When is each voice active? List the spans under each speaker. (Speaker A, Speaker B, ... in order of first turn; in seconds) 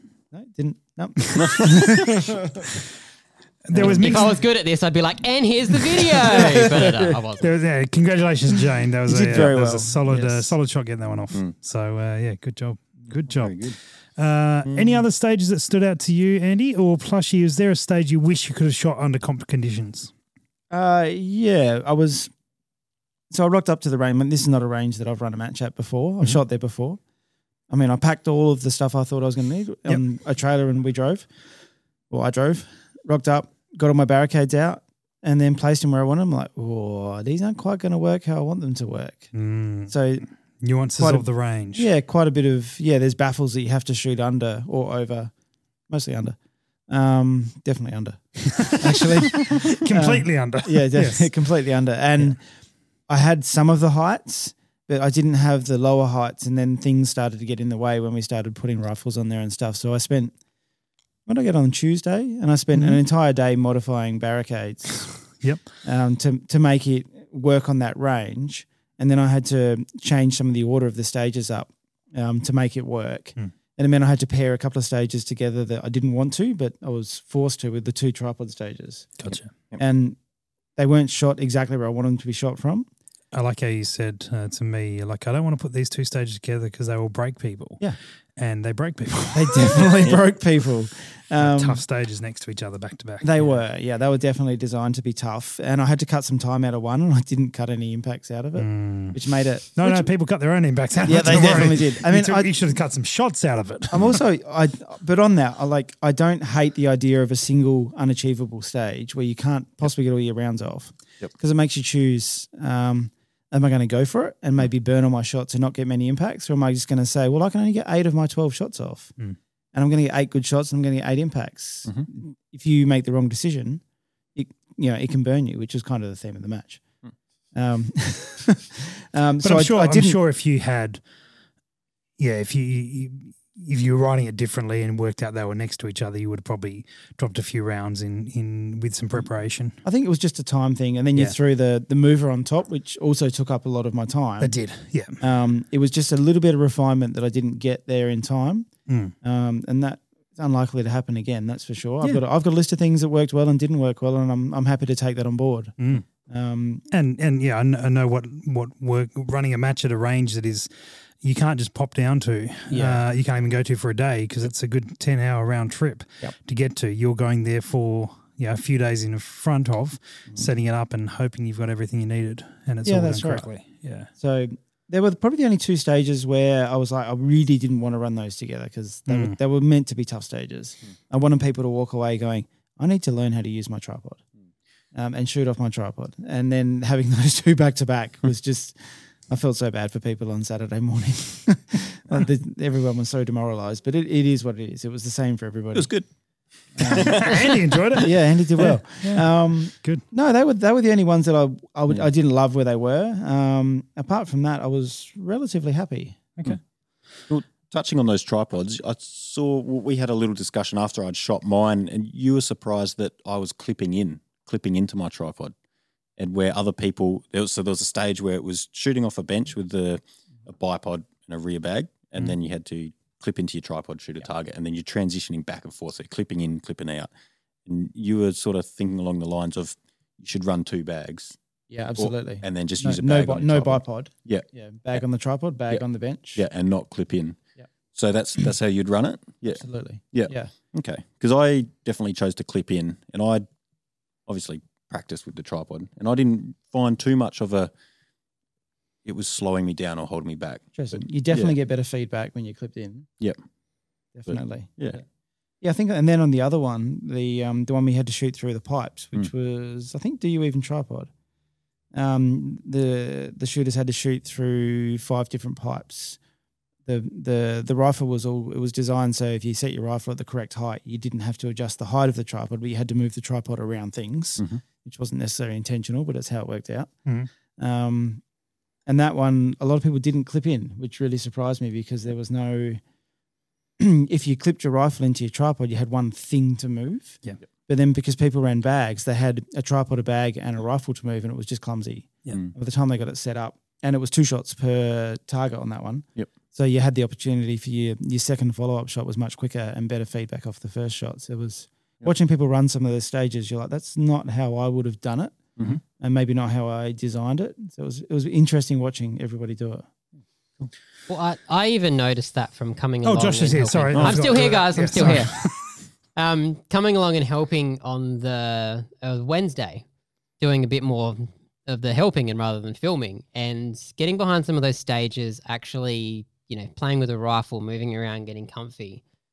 Speaker A: 0.3-2.7, 6.3-6.8, 9.1-10.6, 20.7-22.3, 23.3-27.0, 27.7-31.3, 32.1-39.3, 39.9-40.2, 41.0-45.3, 45.9-46.4, 46.9-52.4, 53.1-60.4, 61.3-79.2, 79.8-80.2, 80.8-82.9, 89.3-91.8, 93.2-100.1, 101.0-102.6, 103.9-119.1, 119.7-123.8, 124.3-126.8, 127.5-130.2, 139.8-144.6, 145.2-148.7, 149.2-156.9, 162.7-163.0, 172.8-173.5, 174.2-184.2, 184.9-195.9, 196.8-197.3, 197.9-206.3, 231.7-236.4, 239.5-240.5, 250.7-253.1, 254.1-255.1, 255.6-261.1, 261.9-266.2, 266.9-278.2, 278.9-282.8, 283.8-305.4, 306.0-309.9
Speaker B: 1.3-2.2, 3.6-4.4, 7.4-20.1, 39.3-40.0, 40.6-41.9, 49.5-51.3, 62.7-63.0, 65.4-65.7, 79.2-79.5, 83.3-87.8, 88.4-90.1, 91.4-93.6, 98.6-99.2, 99.7-104.2, 129.4-131.0, 132.2-139.8, 144.4-145.2, 148.9-149.1, 155.8-156.1, 156.9-160.7, 161.2-174.1, 179.1-179.4, 196.8-200.0, 313.0-315.7
Speaker C: 1.4-2.0, 13.3-13.8, 14.7-15.0, 195.7-196.1, 196.8-197.6, 207.3-215.5, 216.2-227.1, 227.7-231.4, 231.9-235.0, 236.3-237.4, 237.9-243.4, 244.3-247.7, 249.1-251.6, 254.3-255.0, 274.4-274.6, 313.9-314.5
Speaker D: 3.8-7.5, 311.1-319.8, 320.4-329.0